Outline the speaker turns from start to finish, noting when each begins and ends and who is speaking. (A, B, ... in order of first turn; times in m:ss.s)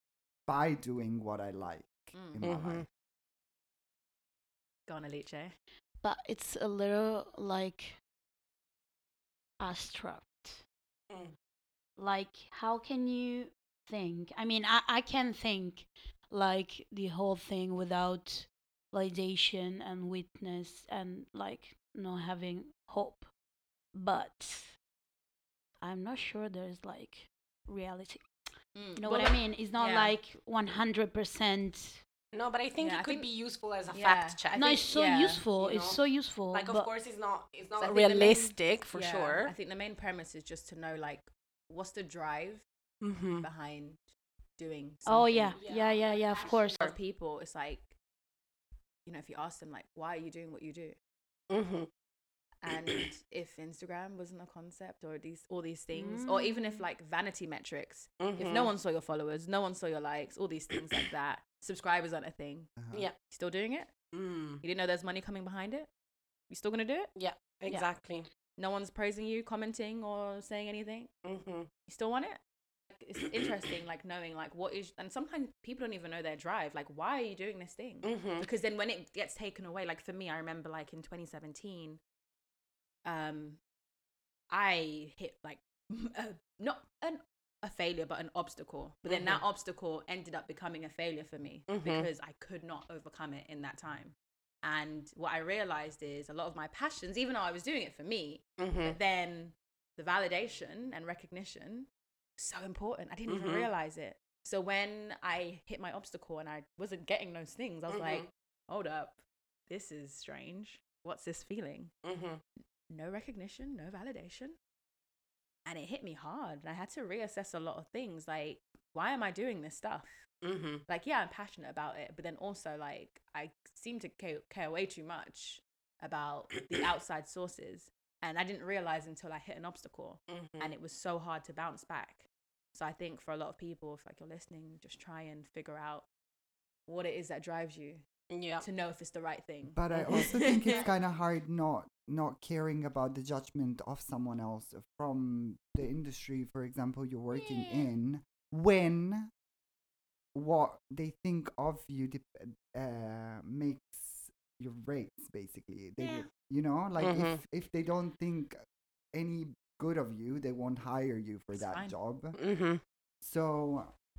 0:00.5-0:02.8 A
0:02.1-0:02.6 B
0:02.4-0:02.8 C
0:04.9-0:05.5 B
0:06.0-0:08.0 D
0:09.6-0:10.6 D
0:11.1-0:11.3 C
0:12.0-0:23.3 D
0:23.9-0:24.8 D
0:25.8-0:28.2 D
0:28.7-0:30.1 B
0:28.9-0:32.0 D
0:32.3-0:34.6 C
0:32.8-0:33.3 B
0:33.9-0:35.4 B
0:34.5-0:36.9 D
0:35.6-0:39.5 C
0:37.8-0:42.6 B
0:43.0-0:43.4 C
0:43.4-0:45.6 B
0:45.0-0:46.8 D
0:45.6-0:47.0 C
0:46.7-0:48.0 B
0:49.0-0:51.0 B
0:51.5-0:51.9 C
0:52.6-1:03.9 B
0:52.7-0:53.0 C
0:55.9-0:56.8 D
0:58.2-0:58.7 C
1:02.8-1:03.1 A
1:04.1-1:04.6 C
1:04.6-1:05.9 B
1:06.5-1:07.1 B
1:07.2-1:08.3 C
1:08.6-1:11.1 B
1:11.2-1:11.7 C
1:11.9-1:12.4 B
1:12.9-1:22.0 B
1:18.0-1:18.5 C
1:23.0-1:23.6 B
1:24.5-1:51.9 B
1:29.0-1:29.4 C
1:31.7-1:32.1 C
1:38.6-1:39.0 C
1:43.3-1:43.7 C
1:47.9-1:48.3 C
1:52.0-1:52.4 C
1:52.9-1:54.6 B
1:55.6-2:00.3 B
2:00.4-2:00.8 C
2:00.8-2:16.1 B
2:10.3-2:10.7 C
2:16.9-2:18.0 B
2:18.3-2:18.6 C
2:18.6-2:20.8 B
2:19.7-2:29.3 A
2:19.9-2:20.2 C
2:27.3-2:27.9 B
2:30.3-2:38.6 A
2:36.0-2:36.3 B
2:37.0-2:37.4 C
2:39.1-2:42.4 A
2:41.5-2:42.0 B
2:42.4-2:42.8 C
2:43.2-2:43.9 A